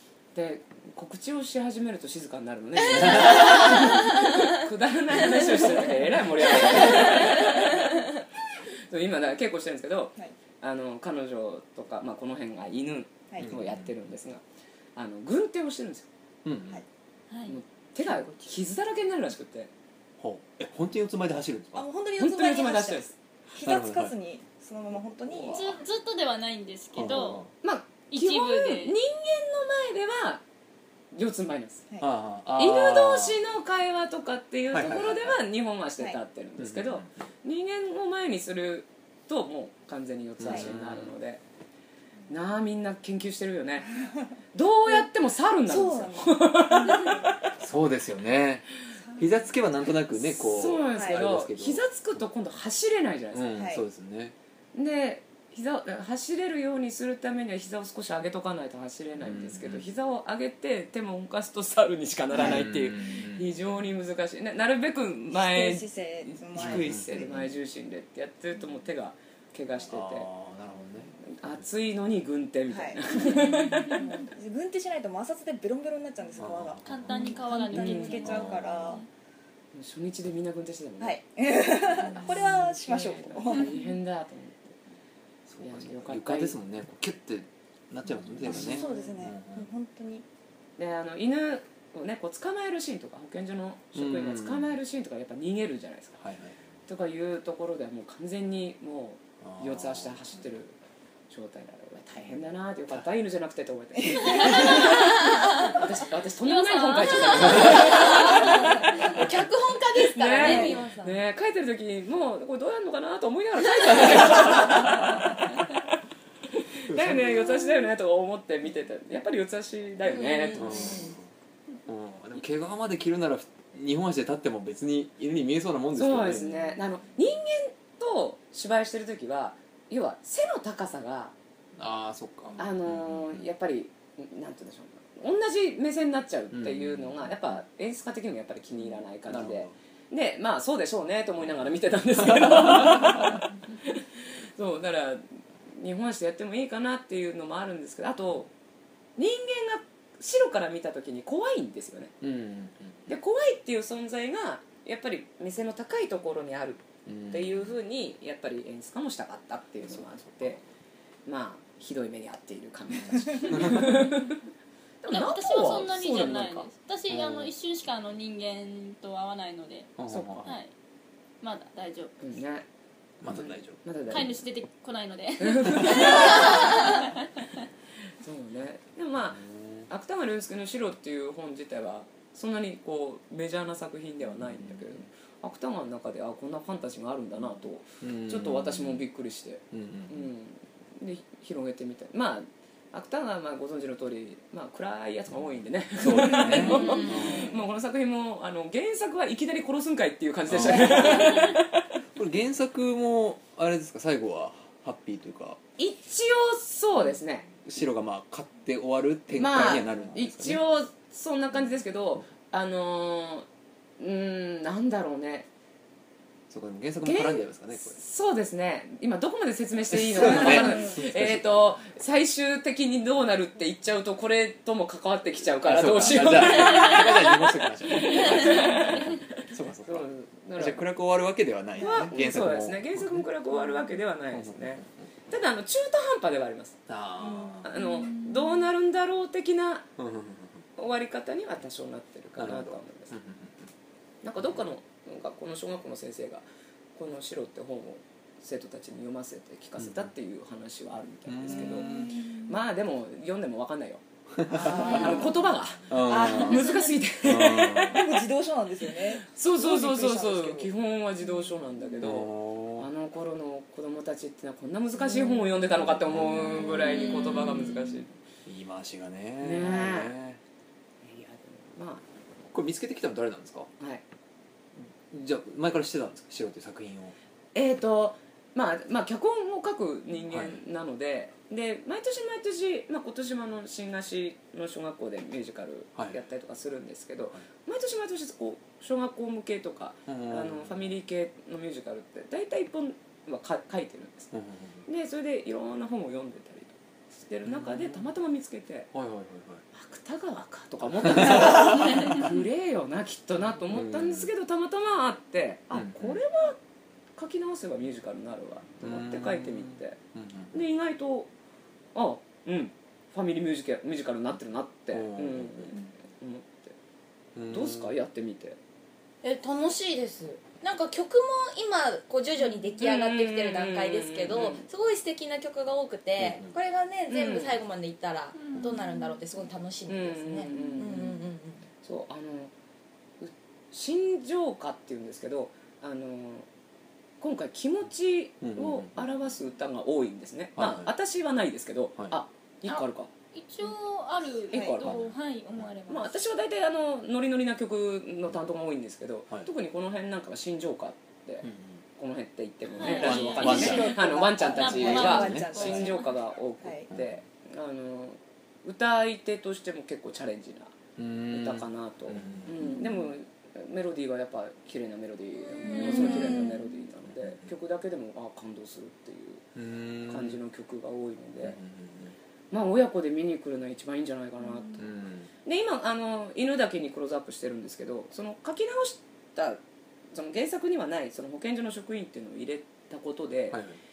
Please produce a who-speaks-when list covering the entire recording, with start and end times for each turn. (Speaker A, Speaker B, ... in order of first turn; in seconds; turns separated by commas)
Speaker A: 0.3-8.1, Speaker B: 2.9-3.6, Speaker C: 3.3-3.8, Speaker A: 8.9-14.4, Speaker B: 13.4-13.9, Speaker A: 14.9-16.1, Speaker B: 16.4-16.8, Speaker D: 17.3-17.6, Speaker A: 17.5-19.7, Speaker E: 18.0-18.5, Speaker B: 20.2-21.9, Speaker E: 21.7-25.8, Speaker A: 22.2-23.1, Speaker B: 23.6-24.1, Speaker B: 25.3-25.8, Speaker D: 25.5-27.5, Speaker B: 26.9-27.5, Speaker A: 27.6-30.4, Speaker D: 28.1-29.0, Speaker A: 31.1-31.8, Speaker B: 32.0-33.4, Speaker A: 32.6-41.4, Speaker B: 34.7-35.4, Speaker B: 36.6-37.2, Speaker B: 40.4-41.2, Speaker A: 42.3-43.9, Speaker A: 44.5-47.4, Speaker E: 45.7-47.3, Speaker B: 47.6-51.8, Speaker A: 50.2-53.6, Speaker E: 50.9-51.2, Speaker B: 53.3-54.4, Speaker E: 53.5-53.8, Speaker A: 54.7-70.3, Speaker B: 59.2-59.9, Speaker B: 62.4-63.5, Speaker E: 65.3-67.5, Speaker B: 66.6-67.5, Speaker B: 69.9-71.6, Speaker A: 71.3-74.1, Speaker E: 72.7-73.2, Speaker D: 73.7-74.0, Speaker E: 73.9-79.0, Speaker B: 76.4-77.4, Speaker D: 76.8-79.1, Speaker A: 77.7-78.3, Speaker B: 78.2-79.0, Speaker A: 79.7-81.2, Speaker E: 81.0-83.7, Speaker A: 81.9-84.8, Speaker B: 85.5-89.7, Speaker A: 85.6-86.6, Speaker A: 88.5-89.2, Speaker E: 88.5-90.2, Speaker A: 90.8-96.2, Speaker B: 94.0-94.7, Speaker B: 96.2-96.6, Speaker A: 96.9-100.8, Speaker B: 99.4-100.4, Speaker A: 101.3-109.2, Speaker E: 104.1-105.0, Speaker D: 104.3-105.8, Speaker D: 106.4-109.1, Speaker C: 107.0-111.2, Speaker A: 110.0-115.4, Speaker E: 110.4-110.8, Speaker A: 116.9-121.1, Speaker B: 116.9-117.2, Speaker C: 120.0-121.1, Speaker B: 120.6-121.2, Speaker B: 121.9-126.5, Speaker A: 125.9-131.3, Speaker B: 131.8-133.4, Speaker A: 132.6-144.0, Speaker B: 136.5-137.3, Speaker B: 139.3-139.7, Speaker B: 142.9-143.4, Speaker A: 144.6-148.5, Speaker A: 149.2-152.2, Speaker B: 152.2-153.0, Speaker A: 153.1-160.6, Speaker B: 157.1-157.7, Speaker B: 159.9-160.6, Speaker A: 161.3-164.4, Speaker B: 163.5-163.8, Speaker A: 165.0-166.7, Speaker D: 165.1-170.7, Speaker B: 167.1-167.5, Speaker B: 170.0-170.5, Speaker A: 170.1-170.5, Speaker D: 171.4-172.2, Speaker A: 172.2-172.7, Speaker B: 173.2-173.8, Speaker A: 173.3-174.4, Speaker D: 174.1-177.4, Speaker A: 175.4-176.9, Speaker A: 178.2-201.8, Speaker B: 179.4-179.9, Speaker B: 184.5-185.1, Speaker B: 188.0-189.1, Speaker B: 189.7-190.2, Speaker B: 196.0-197.5, Speaker D: 196.6-197.1, Speaker C: 196.7-197.3, Speaker B: 200.5-201.6, Speaker B: 202.2-205.6, Speaker A: 205.8-207.5, Speaker B: 207.7-210.6, Speaker A: 209.4-213.5, Speaker A: 214.0-215.5, Speaker B: 216.5-218.0, Speaker A: 217.0-229.2, Speaker B: 219.9-221.8, Speaker B: 225.6-233.2, Speaker A: 229.8-230.8, Speaker A: 231.8-236.8, Speaker E: 231.8-232.1, Speaker B: 234.3-234.9, Speaker B: 236.9-237.7, Speaker A: 237.6-239.9, Speaker D: 237.8-238.7, Speaker B: 240.0-240.6, Speaker A: 240.8-243.1, Speaker B: 242.4-243.7, Speaker A: 244.2-246.4, Speaker A: 247.0-254.0, Speaker B: 249.8-250.1, Speaker B: 251.3-252.2, Speaker D: 251.6-252.5, Speaker B: 254.3-255.2, Speaker E: 254.5-255.4, Speaker A: 254.6-258.0, Speaker B: 255.9-256.7, Speaker E: 256.2-256.9, Speaker B: 257.2-258.2, Speaker E: 257.9-260.7, Speaker A: 259.3-268.1, Speaker B: 262.0-262.9, Speaker B: 265.9-267.3, Speaker B: 268.5-270.4, Speaker A: 269.4-270.1, Speaker A: 271.0-272.0, Speaker B: 272.5-273.7, Speaker B: 274.8-277.1, Speaker A: 277.6-294.3, Speaker B: 280.3-280.6, Speaker B: 286.0-286.2, Speaker B: 290.1-290.9, Speaker B: 294.3-294.9, Speaker A: 294.9-298.9, Speaker B: 297.5-298.1, Speaker B: 298.9-299.6, Speaker A: 299.7-306.6, Speaker B: 301.1-302.2, Speaker B: 303.7-304.3, Speaker B: 305.7-306.2, Speaker A: 307.2-310.0, Speaker B: 308.8-310.5, Speaker A: 310.5-311.3, Speaker A: 311.9-316.8, Speaker B: 314.9-315.8, Speaker B: 317.4-317.9, Speaker A: 317.5-318.6, Speaker C: 319.2-331.6, Speaker A: 322.8-324.6, Speaker B: 326.2-326.5, Speaker A: 327.1-327.6, Speaker D: 328.4-329.2, Speaker A: 329.9-331.2, Speaker D: 330.5-331.0, Speaker A: 331.8-332.5, Speaker A: 333.2-336.5, Speaker A: 337.2-343.1, Speaker B: 338.4-338.9, Speaker B: 340.6-340.9, Speaker D: 342.7-346.1, Speaker A: 344.5-345.0, Speaker E: 344.5-345.0, Speaker A: 345.9-351.4, Speaker B: 351.4-351.8, Speaker A: 352.0-360.8, Speaker D: 352.8-356.1, Speaker E: 352.9-356.9, Speaker B: 353.0-355.9, Speaker B: 356.9-357.2, Speaker B: 361.0-362.5, Speaker A: 361.3-369.4, Speaker D: 365.6-366.6, Speaker E: 365.7-366.1, Speaker B: 369.6-370.4, Speaker A: 370.1-371.6, Speaker B: 371.4-372.1, Speaker A: 372.5-374.9, Speaker B: 374.8-375.3, Speaker A: 375.4-379.6, Speaker A: 380.1-383.6, Speaker B: 383.5-383.8